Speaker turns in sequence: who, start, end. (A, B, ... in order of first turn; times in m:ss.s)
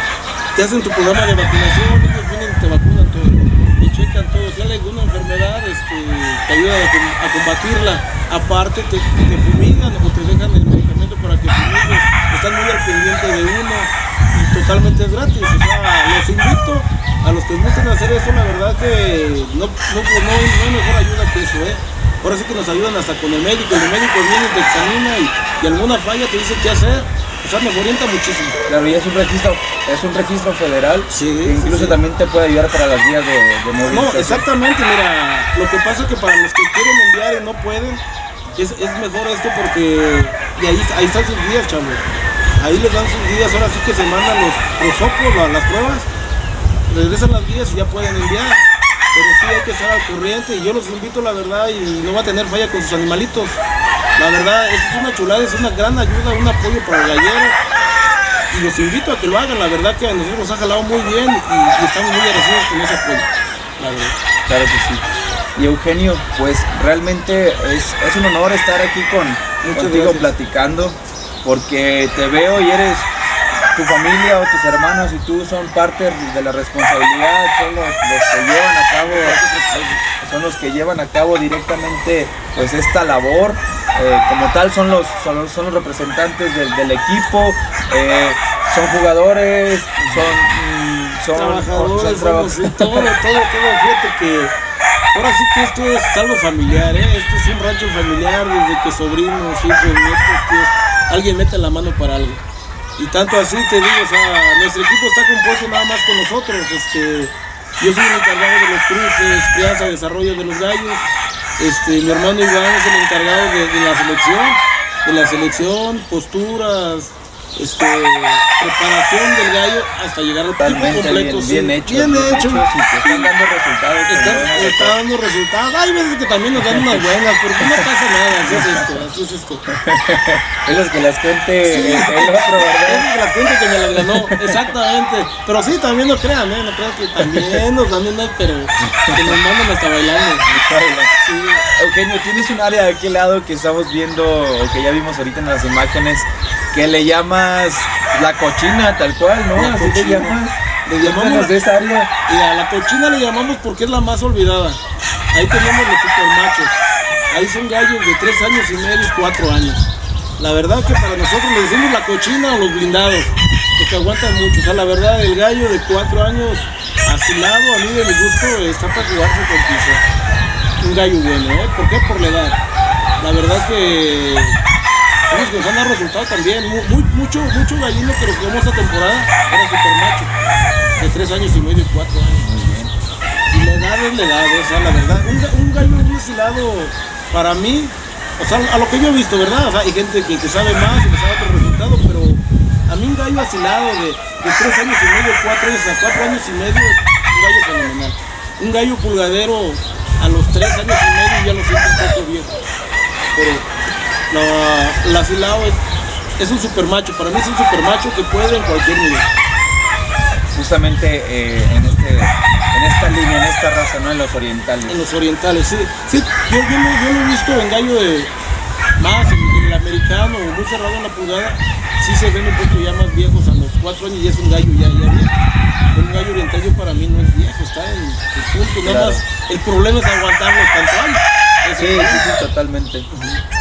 0:00.6-0:28.6 A
0:28.7-0:34.4 B
0:31.1-0:32.0 A
0:33.9-0:38.0 A
0:38.6-0:42.0 A
0:42.6-0:46.1 A
0:46.9-0:53.6 A
0:54.2-0:57.6 A
0:58.5-1:04.2 A
1:04.5-1:05.0 B
1:05.6-1:13.1 B
1:09.6-1:10.3 A
1:13.7-1:19.4 B
1:19.0-1:20.0 A
1:20.2-1:33.1 B
1:30.0-1:30.3 A
1:31.3-1:34.6 A
1:35.1-1:42.4 A
1:43.0-1:51.1 A
1:51.6-2:03.3 A
2:00.6-2:05.0 B
2:04.1-2:09.7 A
2:06.6-2:07.0 B
2:08.5-2:08.8 B
2:09.7-2:13.1 B
2:11.6-2:20.5 A
2:14.0-2:14.7 B
2:17.2-2:17.6 B
2:19.1-2:19.3 B
2:20.5-2:21.1 B
2:21.2-2:21.7 A
2:21.8-2:32.1 B
2:29.5-2:31.6 A
2:32.3-2:34.8 A
2:35.3-2:50.0 A
2:50.8-2:52.6 A
2:53.2-2:54.6 A
2:55.3-3:00.3 A
3:01.0-3:02.5 A
3:02.4-3:02.9 B
3:03.5-3:22.6 A
3:23.3-3:23.7 A
3:24.3-3:25.8 A
3:26.4-3:29.3 A
3:30.5-3:35.0 B
3:34.9-3:38.3 A
3:39.0-3:45.3 A
3:45.9-3:52.3 A
3:48.8-3:49.2 B
3:51.8-3:53.1 B
3:53.1-3:53.4 A